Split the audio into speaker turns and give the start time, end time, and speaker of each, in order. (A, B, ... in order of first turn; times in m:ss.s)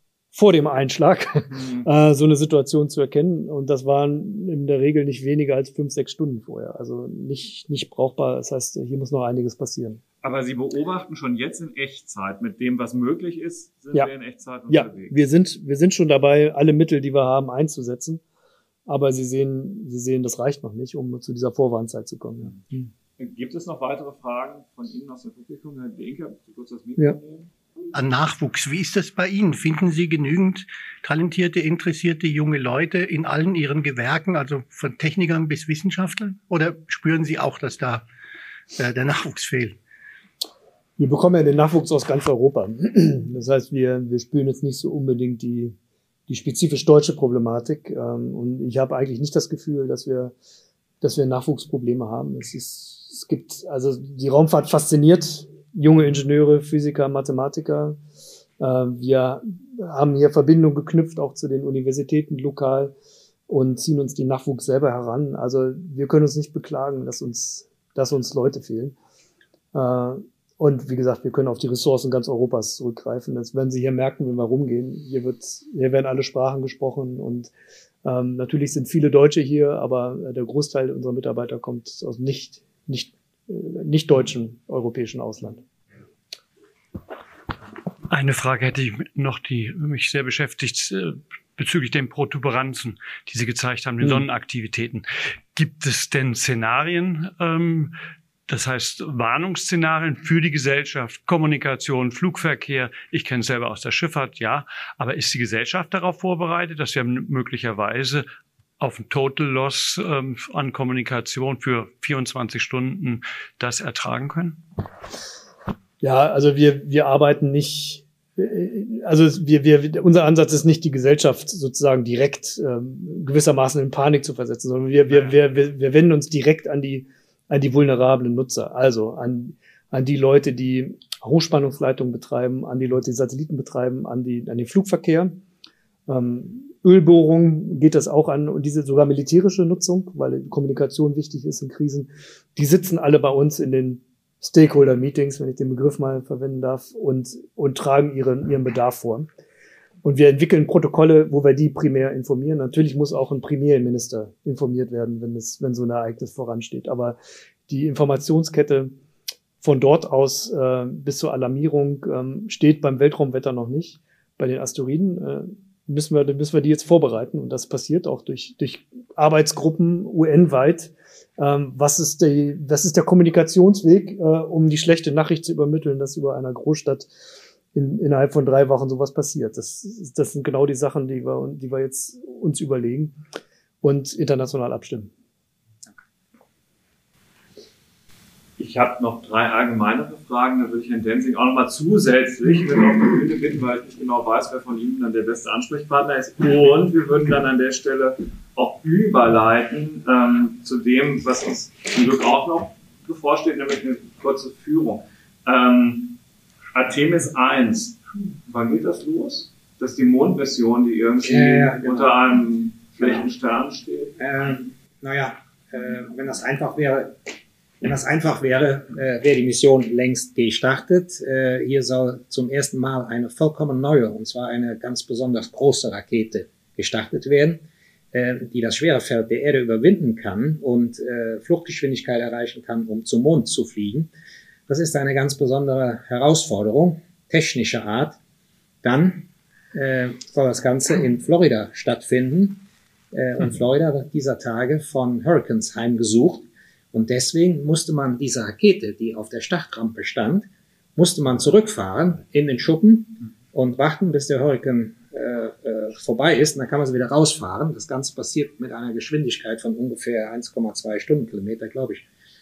0:00.3-0:10.0 A
0:01.5-0:01.9 B
0:10.2-0:15.1 B
0:14.7-0:18.2 A
0:18.8-0:22.8 A
0:23.2-0:27.5 B
0:27.9-0:38.0 C
0:38.7-0:39.8 C
0:41.0-0:45.7 A
0:46.3-0:50.3 A
0:51.0-0:58.0 A
0:58.6-1:02.9 A
1:03.5-1:08.9 A
1:09.7-1:17.5 A
1:18.0-1:25.6 A
1:28.1-1:37.9 D
1:38.5-1:48.2 D
1:48.8-1:54.6 D
1:56.0-2:15.4 A
2:05.1-2:05.4 B
2:16.1-2:29.3 A
2:30.0-2:37.2 A
2:37.7-2:38.9 A
2:39.6-2:57.1 A
2:57.7-3:03.2 A
3:03.8-3:05.1 A
3:08.6-3:26.2 B
3:26.7-3:34.2 B
3:31.2-3:32.2 E
3:33.0-3:33.2 E
3:34.2-3:37.2 E
3:37.8-3:54.1 E
3:54.7-3:58.2 E
3:58.8-4:22.0 E